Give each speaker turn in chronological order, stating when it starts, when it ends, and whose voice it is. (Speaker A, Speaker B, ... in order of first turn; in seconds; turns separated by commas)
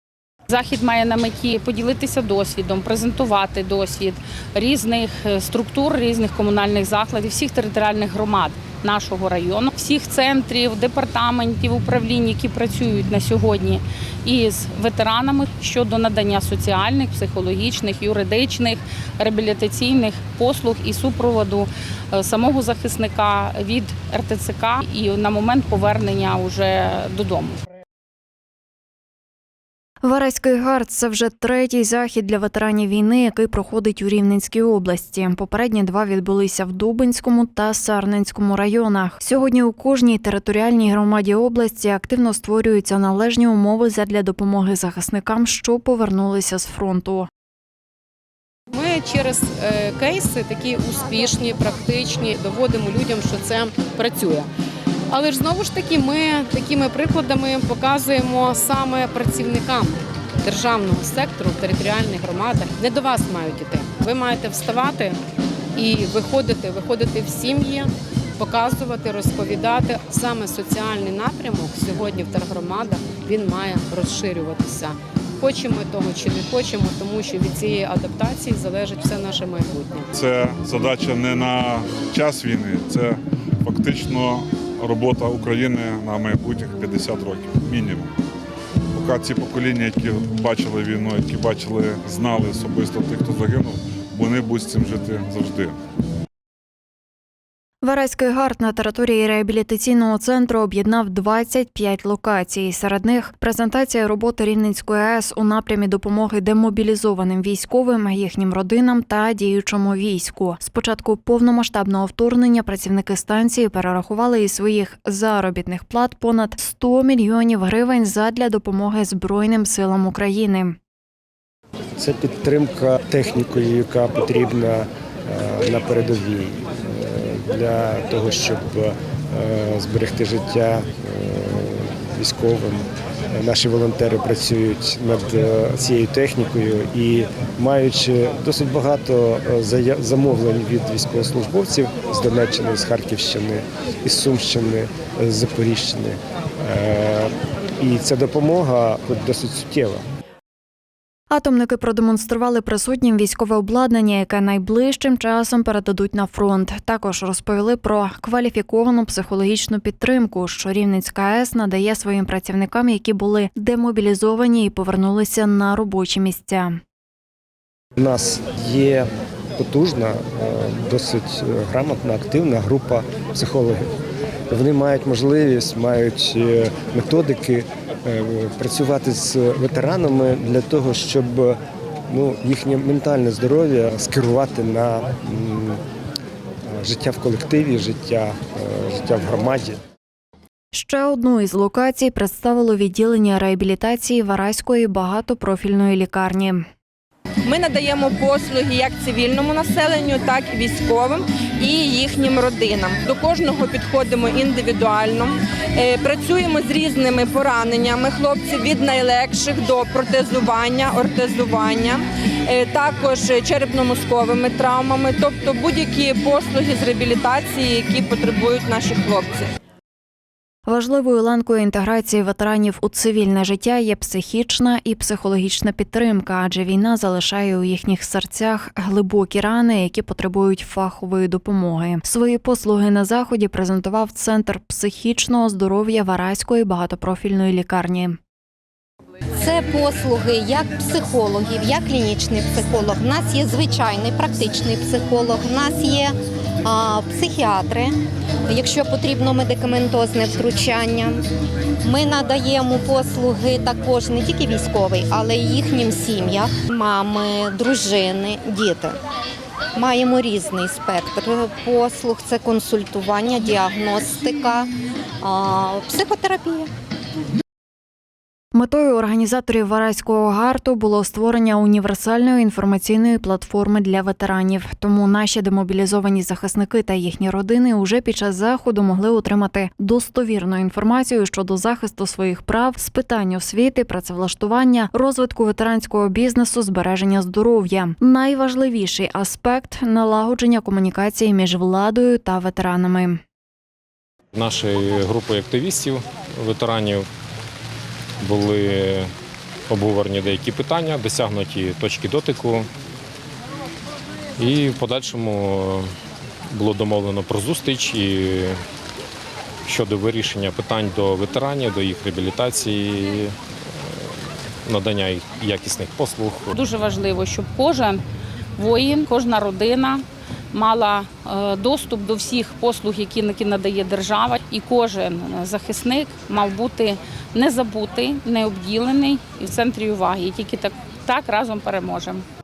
Speaker A: 0.5-27.6, Speaker B: 30.0-47.3, Speaker C: 48.7-54.5, Speaker C: 55.1-65.2, Speaker C: 65.7-80.1, Speaker D: 80.2-88.1, Speaker D: 88.9-95.8, Speaker B: 97.8-120.7, Speaker E: 122.0-150.0, Speaker B: 151.3-166.8, Speaker E: 168.0-173.9, Speaker E: 174.5-185.8, Speaker E: 186.7-189.8, Speaker B: 190.7-196.7, Speaker F: 197.4-219.5, Speaker B: 220.7-238.2, Speaker G: 239.3-251.2, Speaker G: 251.8-259.0, Speaker G: 259.7-266.7, Speaker B: 268.5-293.2, Speaker H: 294.3-297.1, Speaker H: 298.2-299.1, Speaker H: 299.7-302.7, Speaker H: 304.4-305.9, Speaker H: 306.5-308.6, Speaker H: 309.6-316.6, Speaker A: 316.5-318.0, Speaker A: 318.6-332.2